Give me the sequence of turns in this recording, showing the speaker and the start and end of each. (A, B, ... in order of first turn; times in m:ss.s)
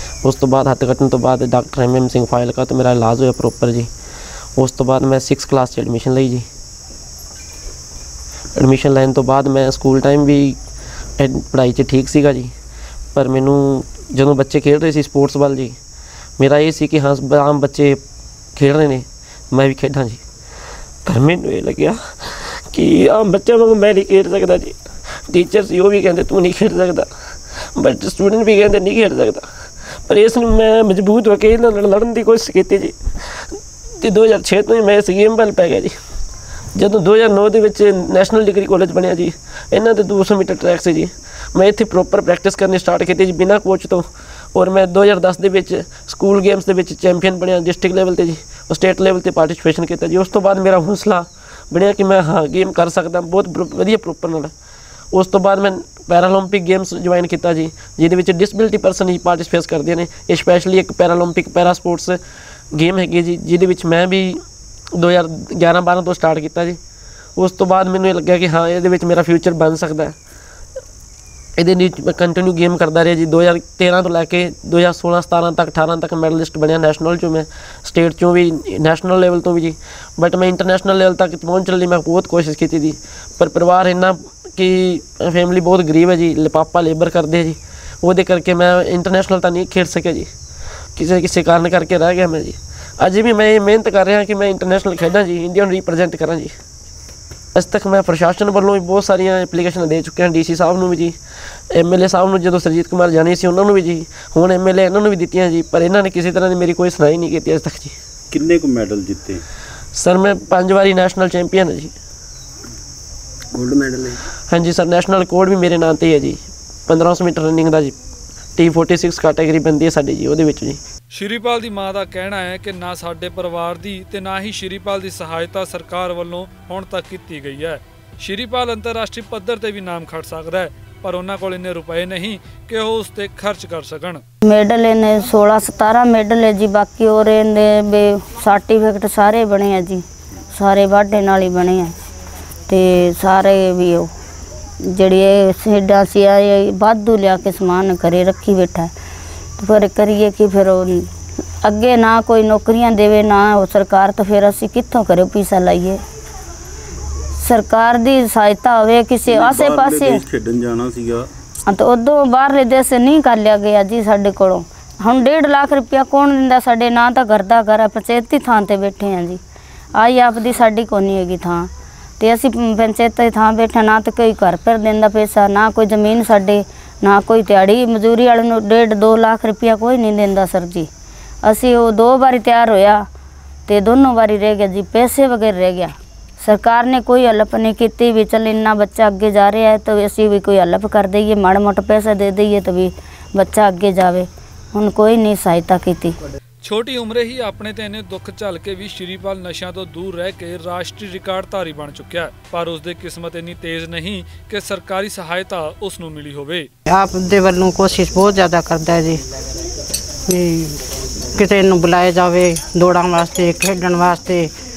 0:00.2-0:03.9 A
0:04.6-0:06.4 A
0:08.6-0:10.6 A
0:11.2-0:12.5 A
0:13.1-0:15.8 A
0:16.4-0:18.0 A
0:18.6-0:20.2 A
0:21.0-0:24.8 A
0:25.3-0:27.1 A
0:27.7-0:29.5 A
0:30.1-0:35.9 A
0:36.7-0:54.5 A
0:55.1-1:02.2 A
1:02.7-1:04.4 A
1:04.9-1:06.8 A
1:07.4-1:10.2 A
1:11.6-1:30.3 A
1:30.9-1:36.5 A
1:37.5-1:41.2 A
1:41.7-1:47.9 A
1:48.3-1:49.4 B
1:49.9-1:51.9 A
1:53.6-1:54.0 B
1:54.5-1:57.9 A
1:58.6-2:00.8 A
2:01.1-2:14.2 C
2:14.4-2:21.9 D
2:22.7-2:24.1 D
2:24.8-2:28.9 D
2:29.6-2:31.1 D
2:31.6-2:36.0 D
2:37.4-2:40.2 D
2:39.3-2:41.3 B
2:41.7-2:49.4 D
2:49.9-3:00.9 D
3:01.4-3:03.0 D
3:03.7-3:16.2 D
3:16.6-3:26.7 C
3:26.9-3:29.2 E
3:30.3-3:30.8 E
3:31.3-3:34.5 E